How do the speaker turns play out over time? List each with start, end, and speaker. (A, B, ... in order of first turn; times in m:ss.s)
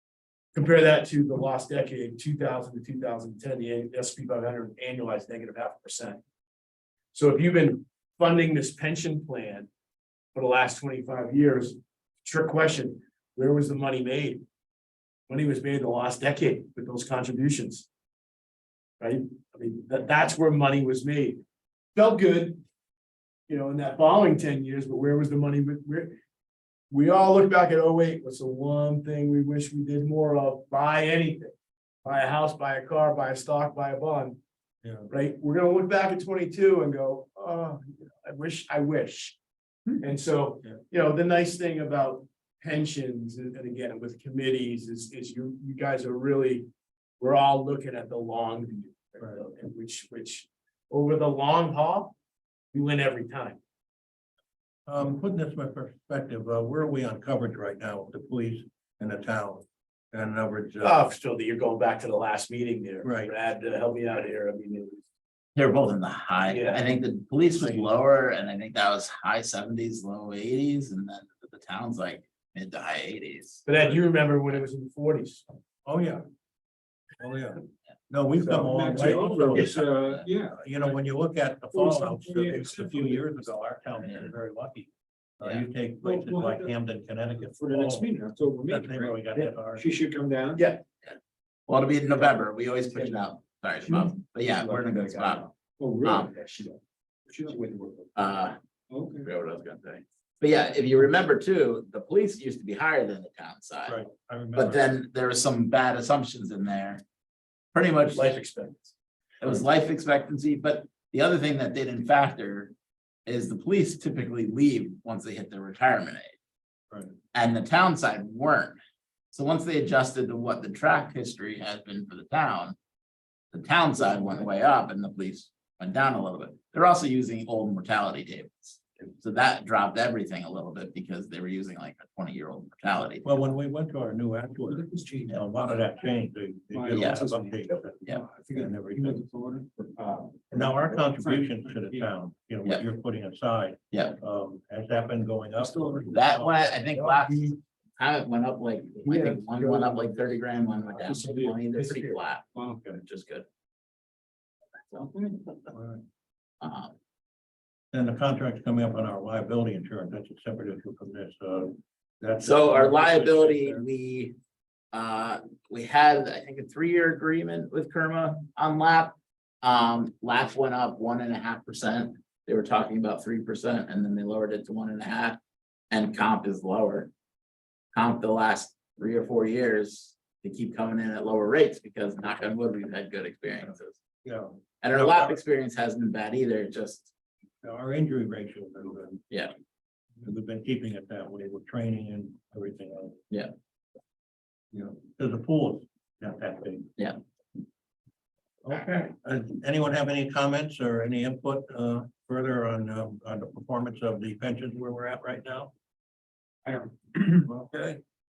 0:00.5-0:06.2 A
0:07.1-0:09.7 A
0:10.3-0:14.4 A
0:15.3-0:17.9 A
0:19.0-0:21.4 A
0:21.9-0:22.6 A
0:23.5-0:26.2 A
0:26.9-0:31.5 A
0:32.0-0:34.4 A
0:34.8-0:35.1 B
0:35.1-0:39.4 A
0:40.0-0:46.7 A
0:47.2-0:52.1 A
0:52.7-0:53.6 A
0:54.9-1:01.0 B
1:00.8-1:05.0 A
1:03.0-1:03.3 B
1:05.6-1:13.7 C
1:06.5-1:06.9 A
1:13.6-1:15.4 A
1:15.8-1:16.2 B
1:17.2-1:19.9 B
1:18.4-1:19.2 A
1:18.5-1:20.8 D
1:20.5-1:28.1 B
1:21.7-1:23.5 D
1:25.4-1:25.6 C
1:26.0-1:26.7 D
1:27.4-1:30.6 D
1:28.7-1:29.8 B
1:30.5-1:30.8 A
1:31.7-1:35.5 C
1:34.0-1:35.5 A
1:35.8-1:36.3 D
1:36.0-1:36.3 C
1:37.3-1:38.1 D
1:38.2-1:38.6 C
1:38.9-1:39.3 D
1:39.2-1:44.0 C
1:43.8-1:44.9 B
1:44.5-1:47.0 C
1:47.7-1:48.3 C
1:48.1-1:48.9 A
1:49.4-1:52.7 C
1:53.2-1:56.3 C
1:57.3-1:58.8 C
1:59.3-2:02.8 C
2:03.5-2:13.4 C
2:13.2-2:19.2 B
2:14.6-2:15.5 D
2:16.7-2:22.1 D
2:17.0-2:17.2 C
2:20.5-2:26.6 B
2:23.9-2:24.2 C
2:25.6-2:26.2 D
2:26.1-2:32.4 C
2:27.0-2:27.5 A
2:29.1-2:30.1 A
2:30.9-2:31.2 A
2:31.0-2:32.0 D
2:31.8-2:32.1 A
2:32.5-2:33.0 D
2:33.0-2:33.4 C
2:35.1-2:35.5 D
2:35.7-2:36.0 B
2:36.6-2:36.9 C
2:37.9-2:43.8 B
2:42.4-2:44.3 C
2:44.9-2:55.4 C
2:55.9-2:57.1 C
2:57.9-3:04.0 C
3:04.2-3:05.4 B
3:04.8-3:07.1 C
3:07.6-3:09.3 B
3:10.2-3:13.2 B
3:14.7-3:16.9 B
3:18.6-3:25.7 B
3:26.6-3:27.3 D
3:27.4-3:28.0 B